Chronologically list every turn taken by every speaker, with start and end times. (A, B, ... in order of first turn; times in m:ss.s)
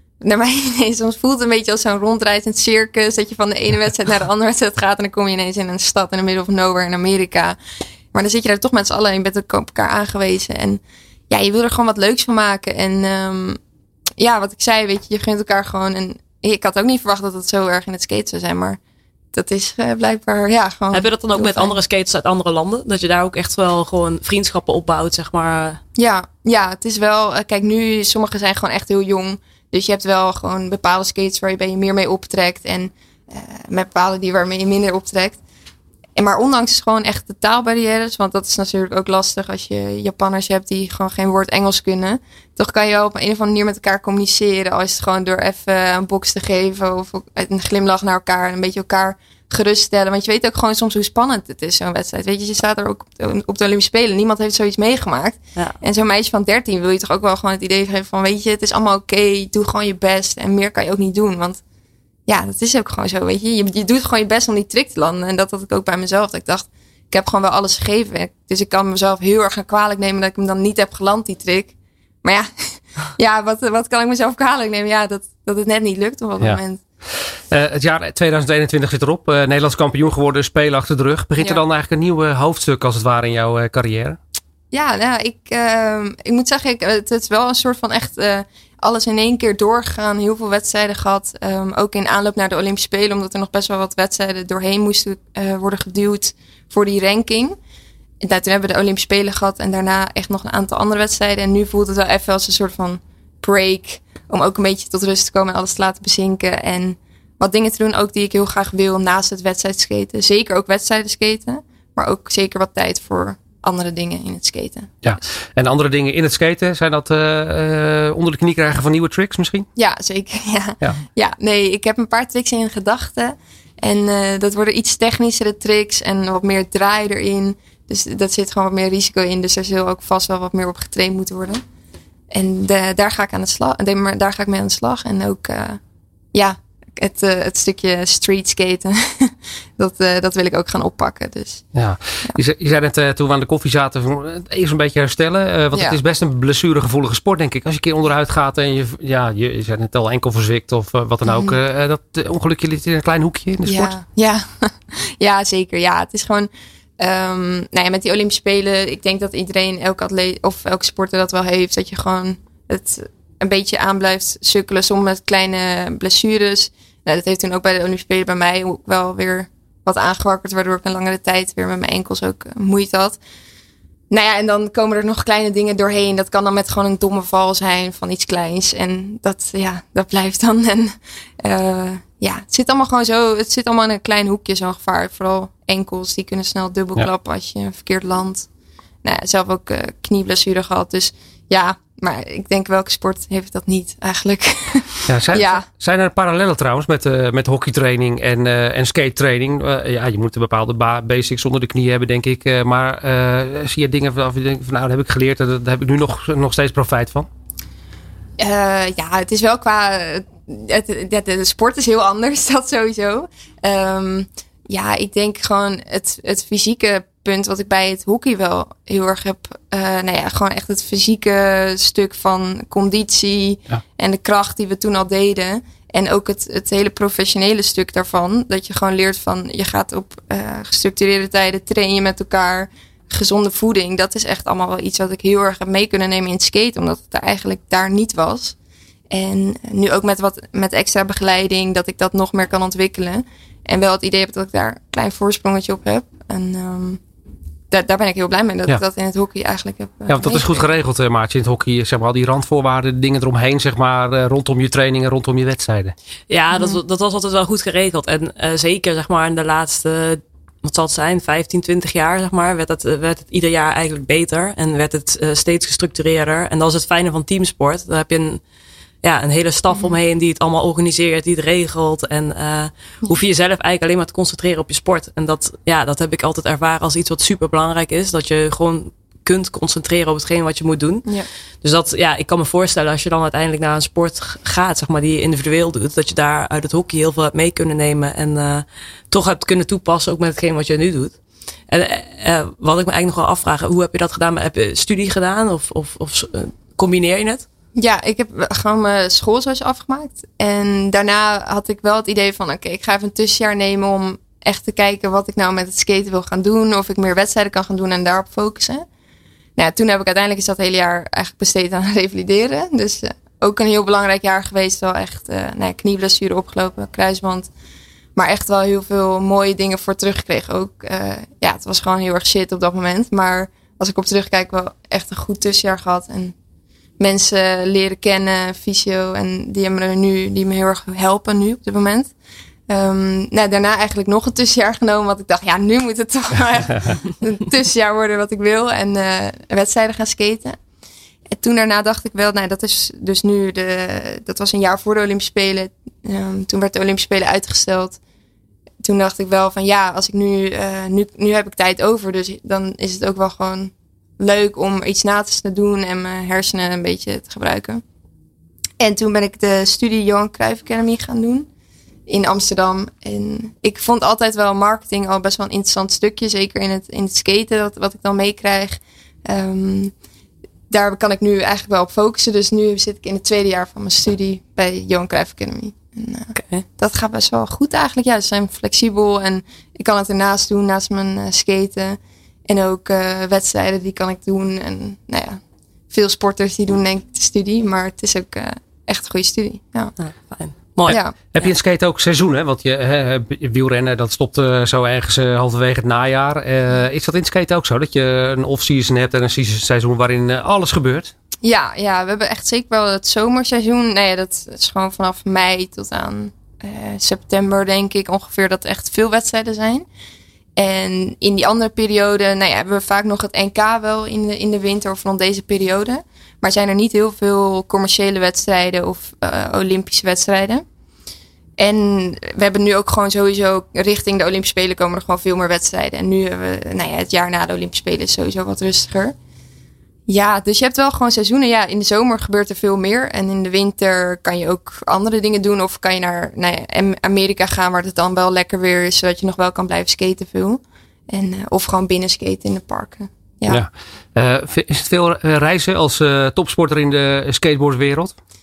0:00.2-0:07.6 A
0:08.1-0:13.6 A
0:14.2-0:18.8 A
0:19.3-0:21.8 A
0:20.9-0:25.8 B
0:26.0-0:35.4 A
0:36.2-1:01.6 A
1:02.3-1:11.7 A
1:12.2-1:16.8 A
1:17.5-1:24.2 C
1:24.7-1:37.6 A
1:38.2-1:55.0 A
1:55.0-1:59.7 C
1:59.8-2:11.6 A
2:12.3-2:15.8 A
2:16.3-2:21.6 A
2:21.8-2:33.9 C
2:25.7-2:26.0 A
2:31.3-2:31.6 A
2:33.6-2:53.2 A
2:54.1-3:08.5 A
3:09.0-3:15.6 A
3:15.1-3:27.3 C
3:28.4-3:58.6 A
3:59.1-4:07.0 A
4:07.7-4:10.7 A
4:10.1-4:16.0 C
4:16.3-4:28.4 B
4:16.5-4:16.8 A
4:29.0-4:51.2 B
4:51.7-4:57.4 B
4:57.8-5:08.8 A
5:09.6-5:17.5 A
5:18.2-5:26.4 A
5:27.0-5:32.1 A
5:32.7-5:40.6 A
5:41.3-5:48.0 A
5:48.8-5:57.8 A
5:58.8-6:01.5 A
6:02.1-6:09.9 A
6:10.7-6:29.9 A
6:16.4-6:16.6 B
6:30.0-6:31.5 B
6:30.9-6:41.1 C
6:30.9-6:31.2 A
6:41.4-6:49.9 A
6:50.6-7:00.6 A
7:01.6-7:09.2 A
7:10.1-7:23.6 A
7:23.5-7:28.2 C